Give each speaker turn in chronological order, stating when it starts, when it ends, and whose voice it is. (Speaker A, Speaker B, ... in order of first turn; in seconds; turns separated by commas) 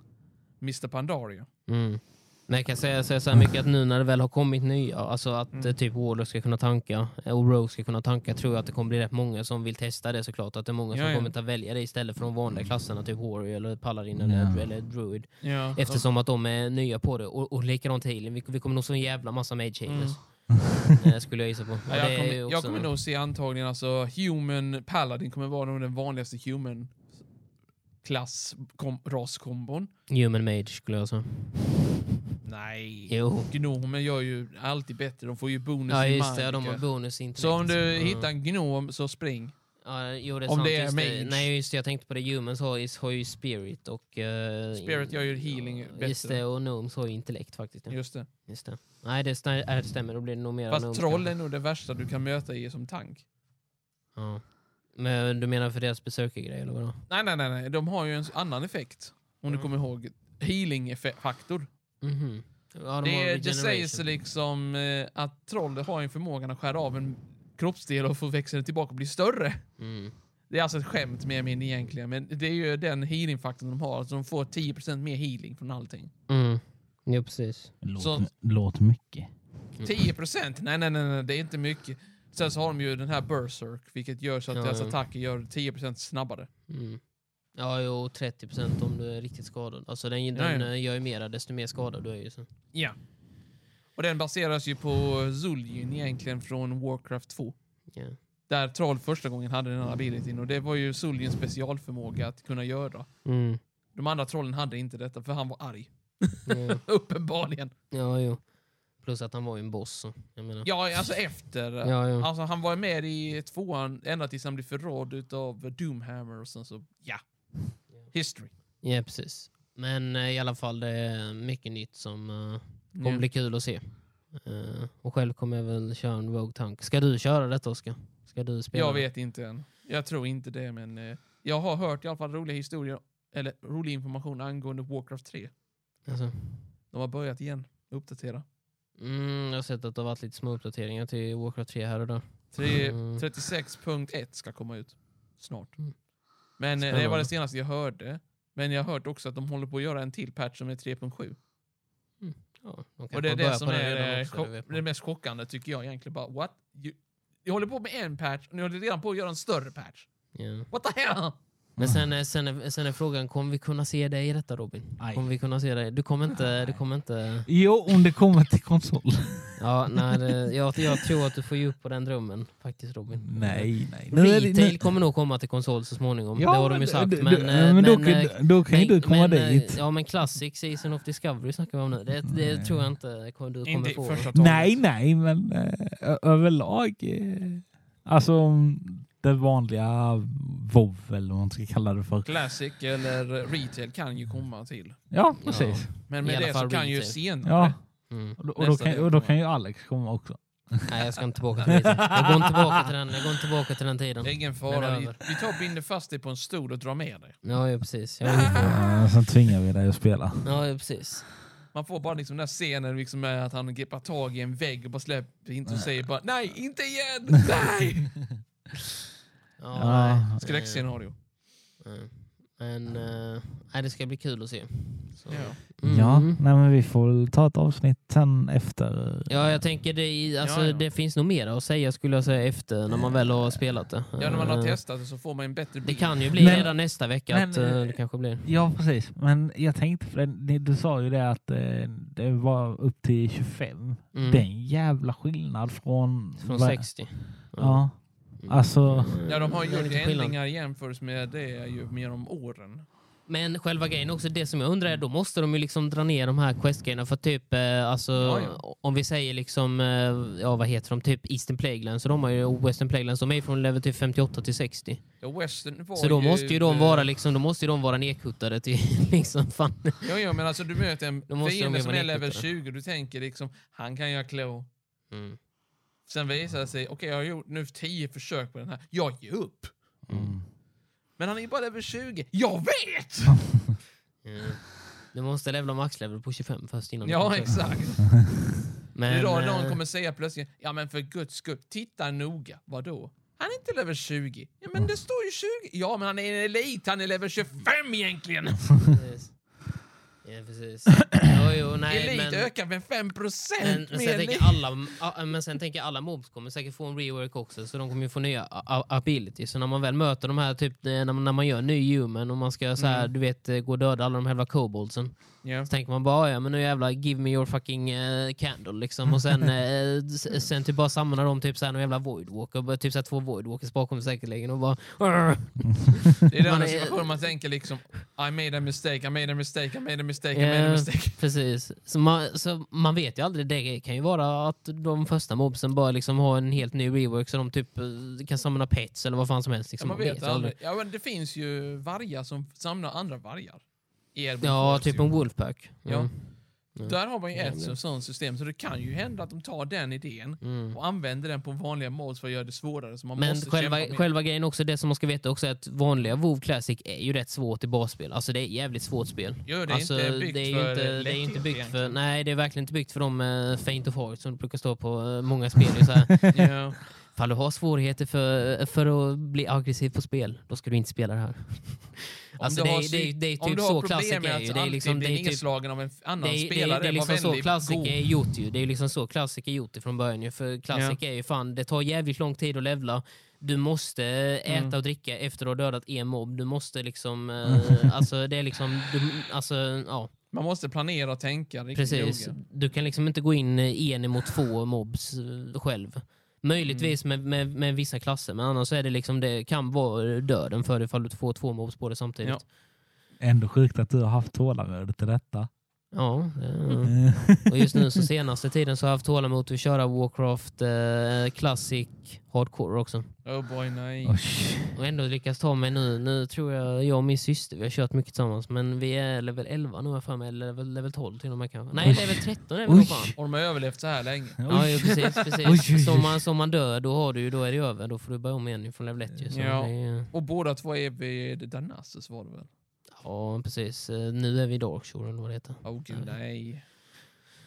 Speaker A: 0.6-1.5, Speaker B: 1.7-22.9, Speaker A: 10.9-11.3, Speaker C: 14.2-14.6, Speaker A: 15.4-16.1, Speaker A: 19.9-20.2, Speaker A: 21.9-27.0, Speaker A: 28.0-29.9, Speaker B: 30.1-31.9, Speaker A: 32.4-39.5, Speaker B: 33.1-33.5, Speaker B: 35.9-38.3, Speaker B: 39.8-51.3, Speaker A: 40.5-41.5, Speaker A: 44.8-46.4, Speaker A: 47.9-48.3, Speaker A: 50.7-53.2, Speaker B: 54.2-57.0, Speaker A: 57.1-61.7, Speaker B: 62.0-64.0, Speaker A: 63.0-69.7, Speaker B: 69.8-70.1, Speaker A: 70.5-76.1, Speaker B: 76.3-77.7, Speaker C: 77.8-79.3, Speaker A: 78.0-78.3, Speaker A: 79.8-86.5, Speaker B: 84.5-85.0, Speaker B: 86.7-87.0, Speaker B: 87.6-92.5, Speaker A: 90.3-90.7, Speaker A: 94.0-97.6, Speaker B: 97.9-98.2, Speaker A: 98.5-103.1, Speaker B: 103.2-103.6, Speaker A: 104.0-107.7, Speaker B: 106.5-106.8, Speaker B: 107.9-108.5, Speaker B: 109.0-111.2, Speaker A: 110.6-118.5, Speaker B: 111.8-112.3, Speaker B: 118.8-129.1, Speaker A: 123.0-123.2, Speaker A: 128.7-135.5, Speaker B: 136.1-136.7, Speaker A: 136.9-138.4, Speaker B: 139.0-143.2, Speaker A: 142.5-146.0, Speaker A: 146.6-151.4, Speaker B: 146.8-147.3, Speaker B: 152.2-154.8, Speaker A: 153.1-160.1, Speaker B: 160.3-160.7, Speaker A: 160.7-161.4, Speaker C: 161.8-162.1, Speaker B: 161.8-167.5, Speaker C: 165.0-165.3, Speaker C: 166.4-166.8, Speaker C: 167.5-170.2, Speaker B: 169.6-184.3, Speaker C: 173.2-174.8, Speaker C: 176.4-179.8, Speaker C: 182.3-182.9, Speaker A: 183.7-184.8, Speaker C: 184.3-192.3, Speaker A: 192.2-195.4, Speaker C: 195.1-195.9, Speaker B: 195.4-197.2, Speaker A: 196.1-199.3, Speaker C: 197.4-202.6, Speaker B: 198.1-198.4, Speaker B: 200.9-205.2, Speaker A: 204.2-207.4, Speaker B: 207.4-208.8, Speaker A: 208.2-209.0, Speaker C: 208.6-210.5, Speaker B: 210.4-211.3, Speaker A: 211.7-218.4, Speaker B: 219.6-221.2, Speaker C: 219.7-220.3, Speaker A: 220.4-221.2, Speaker B: 221.8-226.4, Speaker A: 225.3-225.6, Speaker C: 225.8-229.7, Speaker B: 229.3-234.8, Speaker A: 230.4-230.8, Speaker C: 232.9-233.3, Speaker A: 234.2-236.7, Speaker B: 235.8-238.5, Speaker C: 236.4-249.2, Speaker B: 244.1-244.5, Speaker B: 246.4-250.4, Speaker A: 249.3-252.9, Speaker B: 253.3-265.0, Speaker A: 258.2-258.6, Speaker A: 265.2-267.1, Speaker B: 266.0-270.4, Speaker A: 270.0-274.7, Speaker B: 271.3-272.5, Speaker B: 275.1-275.4, Speaker A: 276.1-279.8, Speaker B: 280.1-280.4, Speaker C: 280.1-280.5, Speaker A: 281.2-283.7, Speaker B: 284.2-287.8, Speaker A: 287.0-288.5, Speaker B: 288.9-289.8, Speaker A: 289.1-299.0, Speaker B: 298.9-299.4, Speaker B: 300.2-302.5, Speaker A: 301.9-304.9, Speaker B: 303.6-327.4, Speaker A: 312.8-313.1, Speaker A: 315.4-315.7, Speaker A: 326.3-331.2, Speaker B: 330.3-340.5, Speaker A: 339.8-354.1, Speaker B: 344.4-347.8, Speaker B: 350.4-350.8, Speaker B: 353.2-375.4, Speaker A: 359.5-362.0, Speaker A: 366.3-366.8, Speaker A: 372.4-378.0, Speaker B: 376.2-390.1, Speaker A: 380.7-381.0, Speaker A: 384.5-384.8, Speaker A: 390.3-392.4, Speaker B: 391.7-402.4, Speaker A: 396.6-397.0, Speaker C: 403.2-405.5, Speaker B: 405.9-413.1, Speaker C: 406.9-407.8, Speaker A: 413.2-414.2, Speaker C: 414.0-414.7, Speaker B: 414.7-423.2, Speaker C: 421.8-423.1, Speaker A: 423.2-425.3, Speaker C: 424.4-426.2, Speaker B: 424.5-430.1, Speaker A: 429.3-432.5, Speaker B: 432.9-436.1, Speaker A: 435.6-436.6